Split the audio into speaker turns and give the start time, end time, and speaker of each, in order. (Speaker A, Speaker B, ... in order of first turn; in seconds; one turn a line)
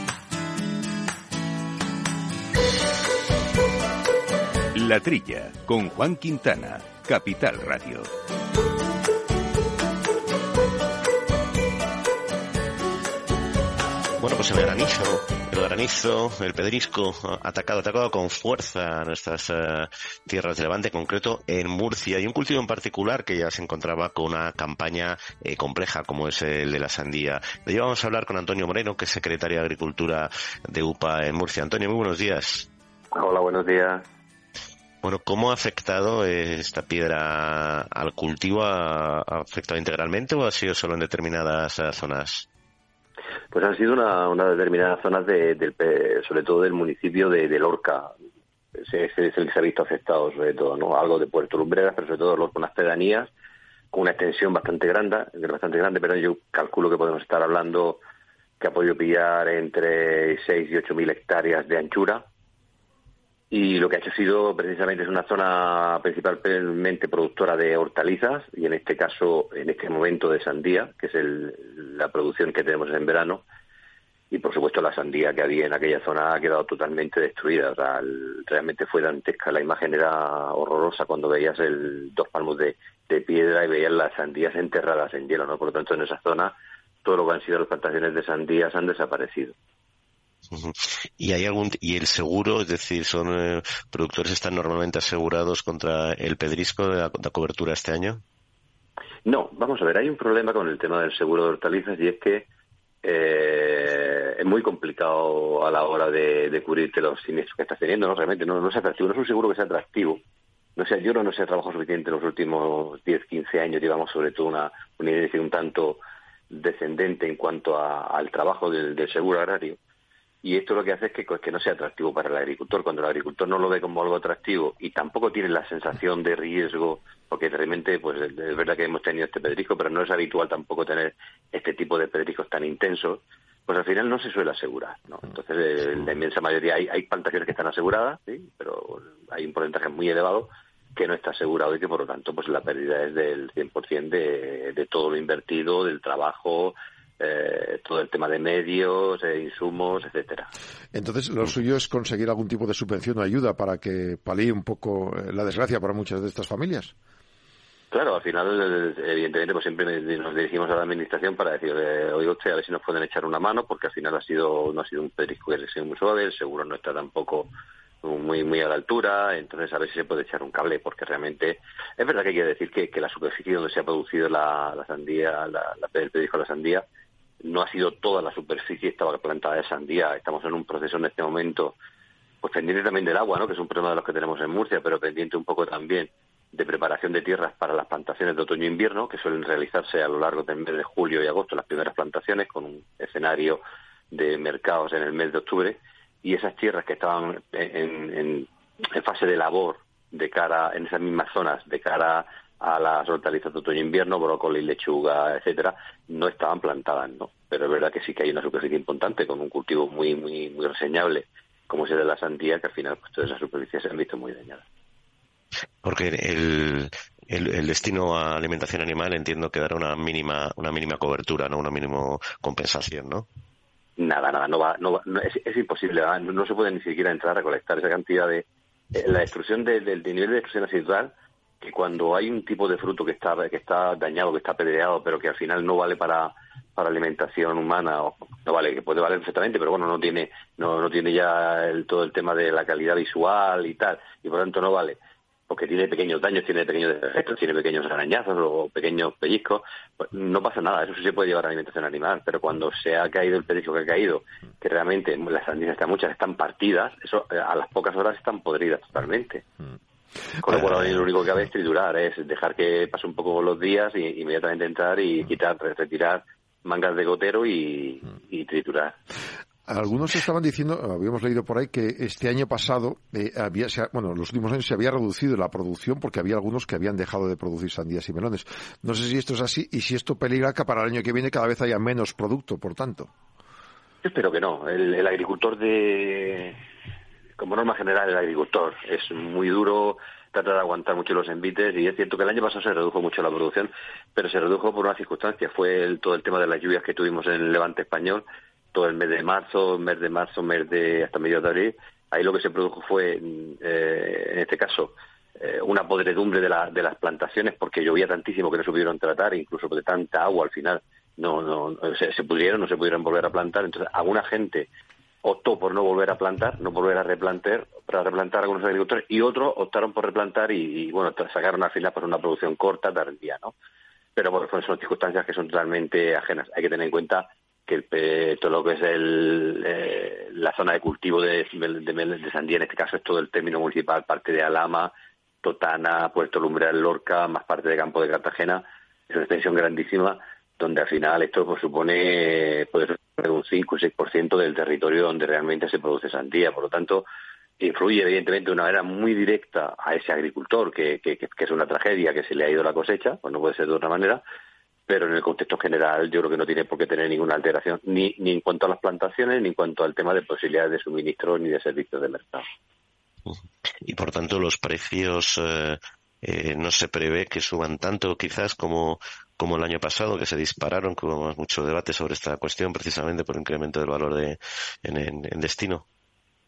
Speaker A: 4.7-8.1
Speaker B: 14.2-32.7
Speaker C: 33.1-34.0
Speaker B: 35.0-42.5
Speaker C: 43.5-48.1
Speaker C: 48.8-53.3
Speaker C: 53.9-58.0
Speaker C: 58.6-62.3
Speaker C: 63.5-73.4
Speaker C: 74.3-89.5
Speaker B: 90.5-98.2
Speaker C: 99.2-102.5
Speaker C: 103.0-110.2
Speaker C: 110.8-119.8
Speaker C: 120.4-150.5
Speaker D: 150.9-156.9
Speaker C: 157.9-167.5
Speaker C: 168.0-176.9
Speaker C: 177.4-181.8
Speaker C: 182.4-214.6
Speaker B: 215.8-223.3
Speaker C: 224.0-259.4
Speaker C: 260.4-268.9
Speaker D: 269.7-283.1
Speaker C: 284.0-286.6
Speaker C: 287.4-314.7
Speaker C: 315.2-323.5
Speaker C: 324.1-347.1
Speaker C: 347.6-354.2
Speaker C: 354.9-362.4
Speaker B: 363.3-375.8